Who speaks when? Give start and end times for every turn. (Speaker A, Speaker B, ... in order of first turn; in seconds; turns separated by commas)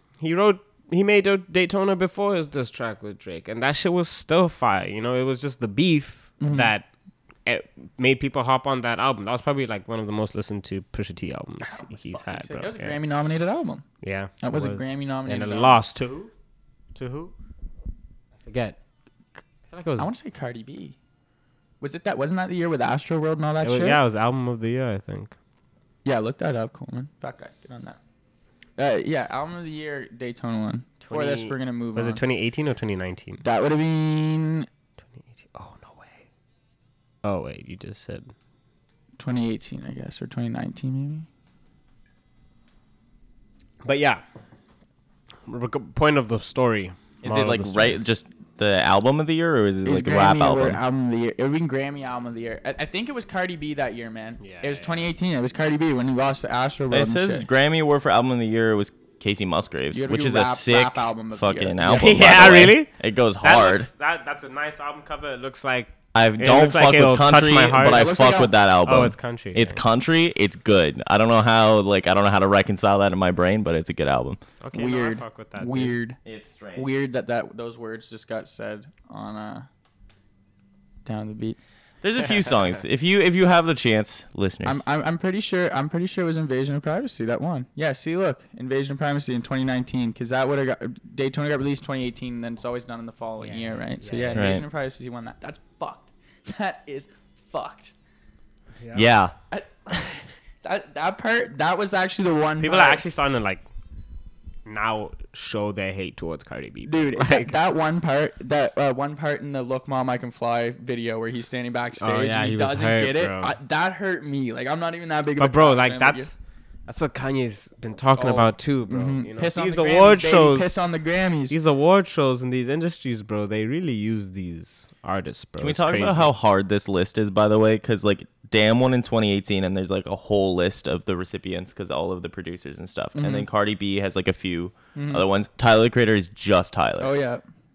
Speaker A: 0.2-6.9, Speaker B: 6.4-6.7, Speaker A: 7.5-13.0, Speaker B: 11.6-13.9, Speaker A: 14.0-16.3, Speaker B: 14.4-15.8, Speaker A: 16.9-17.3, Speaker A: 18.4-18.8, Speaker A: 19.7-20.1, Speaker B: 20.0-21.0, Speaker B: 21.8-24.0, Speaker A: 23.6-25.4, Speaker B: 26.1-28.0, Speaker B: 28.8-32.2, Speaker A: 31.0-33.4, Speaker B: 33.4-34.7, Speaker A: 35.1-36.3, Speaker A: 37.2-38.3, Speaker B: 39.2-41.3, Speaker A: 43.8-44.2, Speaker A: 45.5-48.0, Speaker C: 47.2-50.8, Speaker B: 49.9-57.5, Speaker A: 54.4-55.1, Speaker C: 56.9-63.9, Speaker B: 59.9-61.9, Speaker A: 61.8-68.2, Speaker C: 66.1-74.4, Speaker B: 67.8-68.5, Speaker A: 68.8-69.8, Speaker A: 74.6-75.9, Speaker B: 74.7-76.2, Speaker C: 76.2-76.9, Speaker B: 76.8-79.7, Speaker B: 81.0-81.6, Speaker C: 82.0-84.8, Speaker A: 82.2-82.7, Speaker B: 84.7-97.9, Speaker A: 93.4-94.6, Speaker C: 94.3-94.7, Speaker A: 98.8-99.1, Speaker C: 98.9-99.3, Speaker B: 99.5-103.0, Speaker A: 102.6-103.6, Speaker A: 104.7-107.5, Speaker B: 106.8-116.3, Speaker A: 112.0-113.6, Speaker A: 115.4-120.8, Speaker B: 118.2-121.6, Speaker A: 121.5-126.3, Speaker C: 125.6-137.2, Speaker B: 133.2-133.5, Speaker B: 134.9-135.2, Speaker B: 137.0-137.4